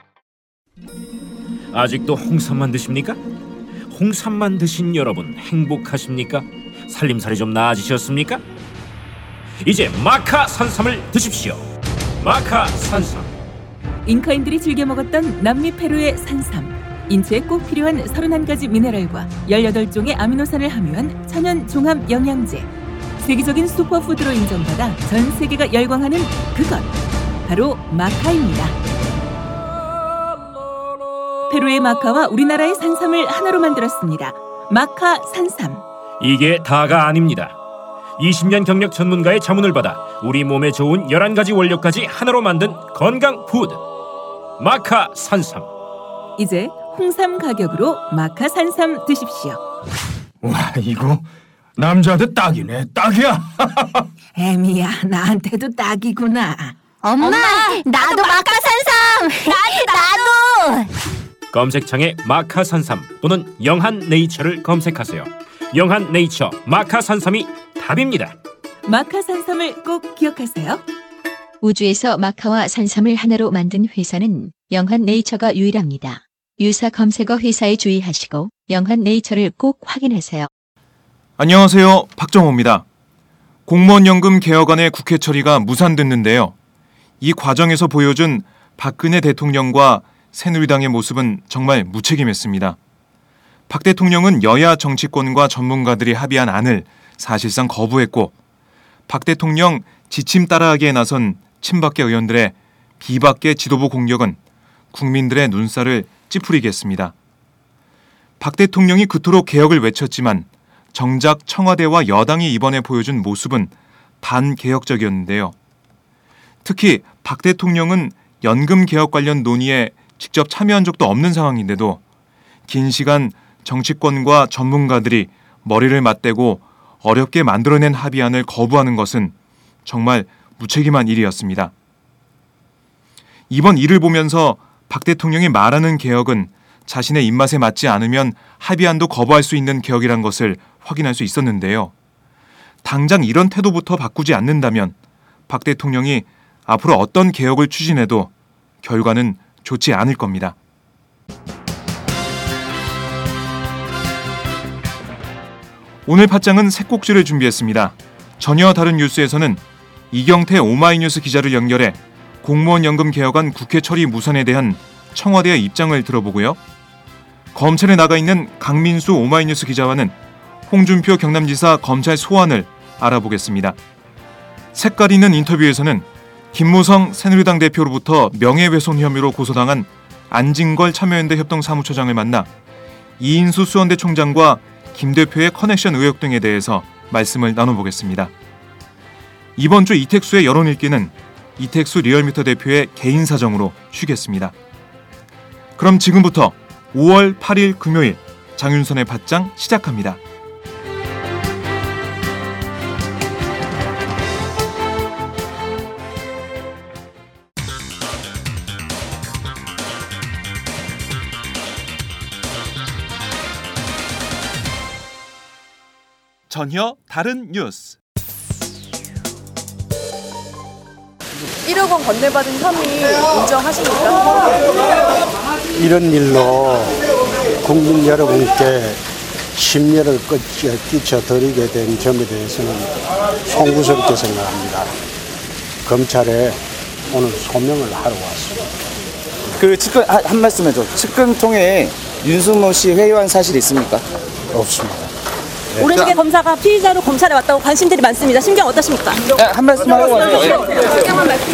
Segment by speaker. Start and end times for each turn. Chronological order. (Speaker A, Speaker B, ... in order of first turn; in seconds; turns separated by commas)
Speaker A: 1.7-3.2, Speaker A: 3.9-8.4, Speaker A: 9.6-11.6, Speaker A: 12.2-13.3, Speaker B: 14.0-26.9, Speaker B: 27.4-28.7, Speaker B: 31.5-35.8, Speaker A: 36.2-37.6, Speaker A: 38.2-43.8, Speaker A: 44.6-45.7, Speaker B: 46.4-49.6, Speaker C: 50.4-51.2, Speaker C: 51.8-54.1, Speaker B: 54.4-56.7, Speaker D: 57.0-60.9, Speaker A: 61.5-68.3, Speaker B: 68.8-70.8, Speaker E: 71.6-80.5, Speaker F: 81.4-82.8, Speaker F: 83.7-86.5, Speaker F: 87.2-92.8, Speaker F: 93.7-98.3, Speaker F: 99.1-104.4, Speaker F: 104.9-107.1, Speaker F: 108.4-115.5, Speaker F: 116.6-122.0, Speaker F: 122.7-129.3, Speaker F: 129.8-131.7, Speaker F: 133.5-141.9, Speaker F: 142.8-144.9, Speaker F: 145.5-148.3, Speaker F: 148.8-150.6, Speaker F: 156.1-166.6, Speaker F: 167.5-170.1, Speaker F: 170.7-173.8, Speaker F: 174.7-182.5, Speaker F: 183.2-188.3, Speaker F: 189.6-194.5, Speaker F: 195.8-200.2, Speaker F: 216.5-218.0, Speaker G: 225.8-227.1, Speaker G: 227.6-229.0, Speaker G: 229.5-234.9, Speaker G: 235.8-236.6, Speaker G: 237.1-238.7, Speaker H: 239.6-244.0, Speaker G: 244.5-245.1, Speaker H: 245.8-246.2, Speaker I: 245.8-249.2, Speaker H: 249.3-251.1